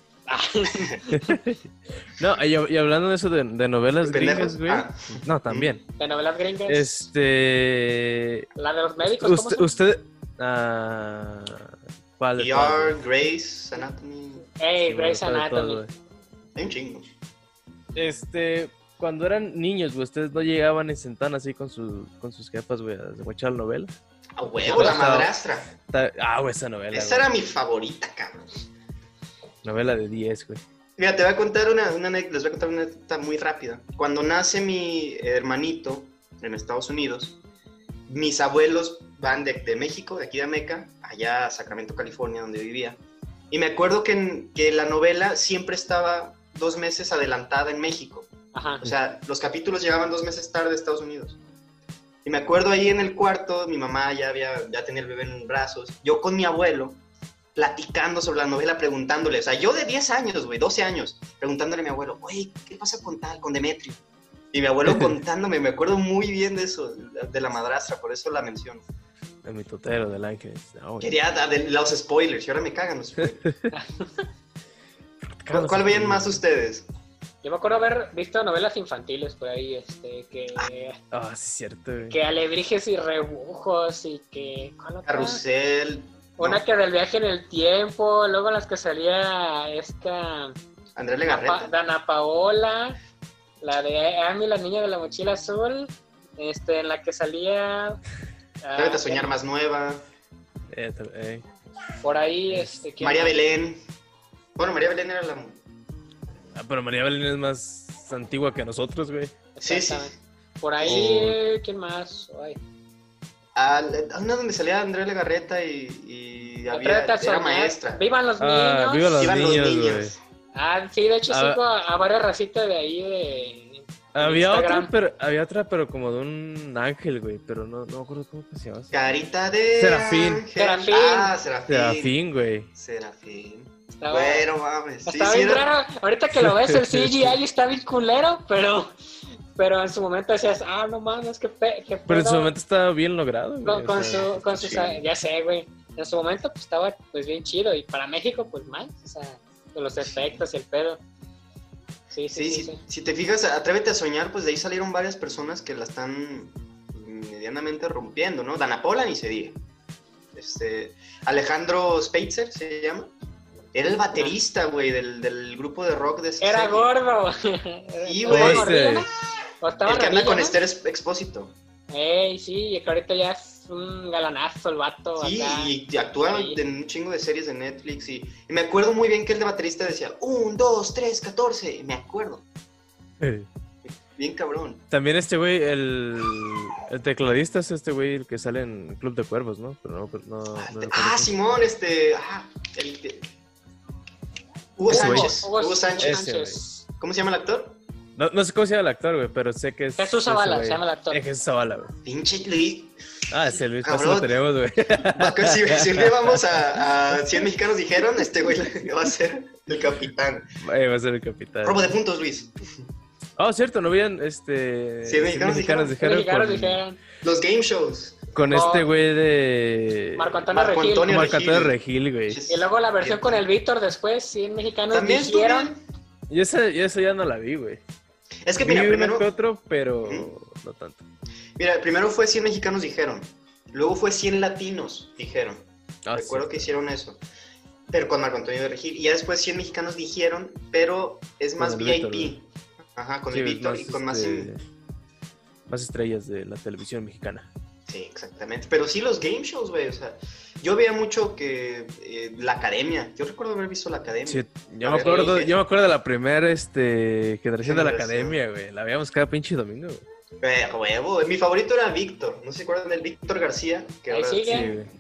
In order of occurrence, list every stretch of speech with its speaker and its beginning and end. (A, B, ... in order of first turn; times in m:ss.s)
0:00.3-0:01.4 A
0:01.2-0:05.9 B
0:04.0-0:05.8 C
0:06.0-0:07.0 A
0:06.7-0:08.5 B
0:08.6-0:09.7 A
0:09.0-0:13.0 B
0:12.4-0:14.5 C
0:14.6-0:15.8 A
0:14.9-0:15.9 B
0:16.6-0:17.1 C
0:18.0-0:23.9 B
0:24.4-0:25.7 C
0:24.6-0:27.3 B
0:26.9-0:28.6 C
0:29.6-0:30.6 B
0:31.0-0:37.4 C
0:38.1-0:43.0 C
0:43.5-0:51.4 C
0:48.5-0:48.8 A
0:52.2-0:57.0 C
0:57.6-1:04.0 C
1:04.5-1:08.8 C
1:09.4-1:11.2 B
1:11.0-1:13.4 C
1:13.2-1:13.7 B
1:13.7-1:14.3 A
1:15.3-1:16.4 B
1:15.5-1:16.9 C
1:17.4-1:21.0 A
1:21.1-1:22.2 B
1:22.1-1:25.4 A
1:25.1-1:26.6 C
1:26.4-1:30.6 A
1:31.0-1:31.7 C
1:31.3-1:33.0 A
1:33.6-1:38.0 A
1:38.6-1:39.3 A
1:38.8-1:40.0 C
1:40.7-1:41.4 B
1:42.0-1:43.5 A
1:42.5-1:42.8 B
1:43.0-1:43.8 C
1:44.6-1:45.6 C
1:46.6-1:49.4 B
1:49.6-1:52.6 A
1:49.6-1:50.2 C
1:50.8-1:51.3 C
1:50.8-1:51.4 B
1:53.6-1:58.0 C
1:56.7-1:59.2 A
1:58.4-2:00.2 B
1:59.2-2:00.2 C
2:00.5-2:04.9 A
2:01.3-2:01.6 B
2:04.2-2:09.0 B
2:08.9-2:12.2 C
2:09.8-2:10.5 B
2:10.6-2:11.3 A
2:11.7-2:12.7 B
2:12.8-2:15.7 C
2:14.0-2:14.5 A
2:15.1-2:18.9 A
2:16.3-2:17.4 B
2:19.6-2:22.5 A
2:22.1-2:25.0 B
2:23.6-2:31.0 A
2:32.1-2:32.8 A
2:32.3-2:39.6 C
2:40.3-2:43.1 C
2:43.7-2:46.9 C
2:46.4-2:49.1 A
2:48.0-2:48.8 C
2:48.3-2:49.1 B
2:49.6-2:50.6 A
2:49.8-2:51.5 C
2:51.9-2:56.6 A
2:55.2-3:02.4 C
3:03.2-3:03.5 B
3:04.1-3:04.8 C
3:04.9-3:11.3 B
3:10.6-3:13.3 C
3:14.8-3:16.2 C
3:14.9-3:16.8 A
3:14.9-3:15.4 B
3:16.0-3:16.6 B
3:17.0-3:17.8 C
3:18.2-3:21.9 B
3:20.0-3:21.2 A
3:22.0-3:23.0 C
3:23.3-3:26.4 B
3:23.8-3:24.4 C
3:25.0-3:30.5 C
3:30.6-3:31.9 B
3:31.6-3:32.8 C
3:33.4-3:36.8 B
3:35.0-3:36.0 C
3:36.0-3:37.0 A
3:37.2-3:38.4 C
3:38.3-3:40.4 B
3:38.5-3:38.9 A
3:40.2-3:41.2 A
3:40.5-3:41.8 C
3:41.1-3:42.4 B
3:42.3-3:43.4 C
3:42.5-3:45.7 A
3:44.9-3:45.8 C
3:46.3-3:47.8 B
3:48.5-3:49.3 C
3:48.6-3:51.0 B
3:50.0-3:50.3 C
3:51.6-3:57.2 C
3:56.1-3:56.7 B
3:57.9-4:04.5 C
4:01.6-4:02.4 B
4:03.3-4:04.6 B
4:05.7-4:07.5 B
4:07.9-4:15.6 C
4:14.3-4:20.0 B
4:17.6-4:18.4 C
4:20.4-4:24.8 C
4:24.1-4:24.8 A
4:24.4-4:24.9 B